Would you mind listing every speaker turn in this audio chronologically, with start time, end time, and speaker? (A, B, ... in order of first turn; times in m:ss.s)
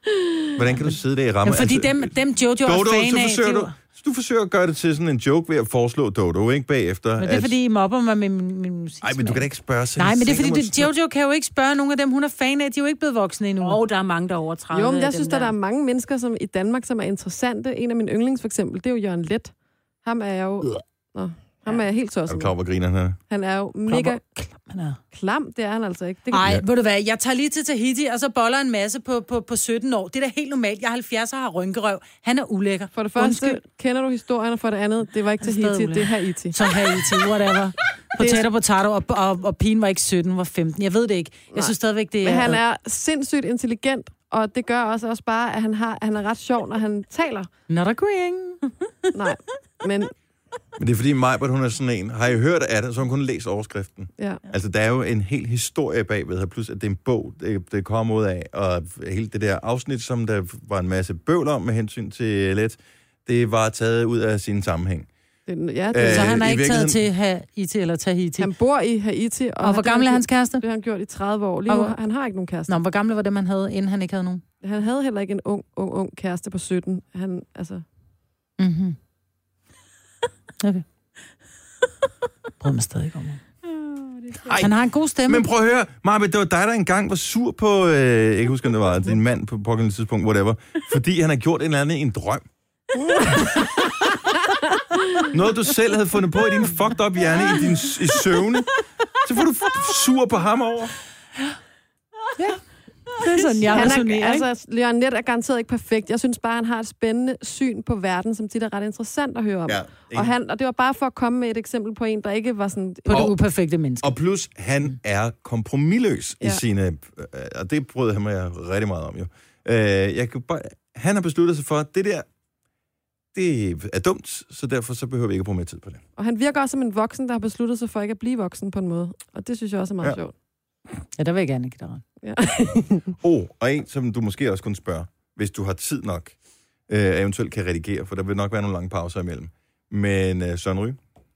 0:00.6-0:02.1 A
0:01.4-0:03.8 B
0:02.6-0:07.6 A
0:07.2-0:13.8 B
0:09.0-0:10.9 A
0:13.6-0:15.5 C
0:14.7-0:19.5 D
0:20.0-0:22.6 D
0:22.3-0:23.2 A
0:23.3-0:24.2 D
0:23.9-0:25.0 B
0:25.1-0:26.5 D
0:26.3-0:33.6 B
0:32.9-0:36.6 D
0:35.4-0:42.6 B
0:38.2-0:38.5 D
0:41.5-0:47.5 D
0:47.7-0:48.6 B
0:49.1-0:50.1 D
0:50.8-1:05.1 A
0:54.2-0:54.4 D
1:05.5-1:06.5 D
1:05.9-1:07.0 A
1:06.0-1:08.5 B
1:08.4-1:12.8 D
1:09.6-1:10.6 B
1:11.7-1:12.0 B
1:12.7-1:14.4 B
1:14.6-1:17.8 D
1:18.6-1:19.0 B
1:22.6-1:23.4 B
1:23.7-1:24.6 C
1:24.5-1:24.7 A
1:24.6-1:25.5 B
1:25.3-1:32.4 A
1:34.8-1:35.3 D
1:35.3-1:41.0 A
1:43.1-1:44.5 B
1:43.4-1:43.8 C
1:43.7-1:53.3 D
1:49.7-1:50.3 A
1:53.1-1:54.2 B
1:53.1-1:53.4 A
1:54.0-2:02.3 A
2:03.3-2:06.0 A
2:06.2-2:10.3 D
2:11.0-2:12.0 B
2:12.2-2:13.1 D
2:13.2-2:16.4 A
2:16.9-2:21.0 A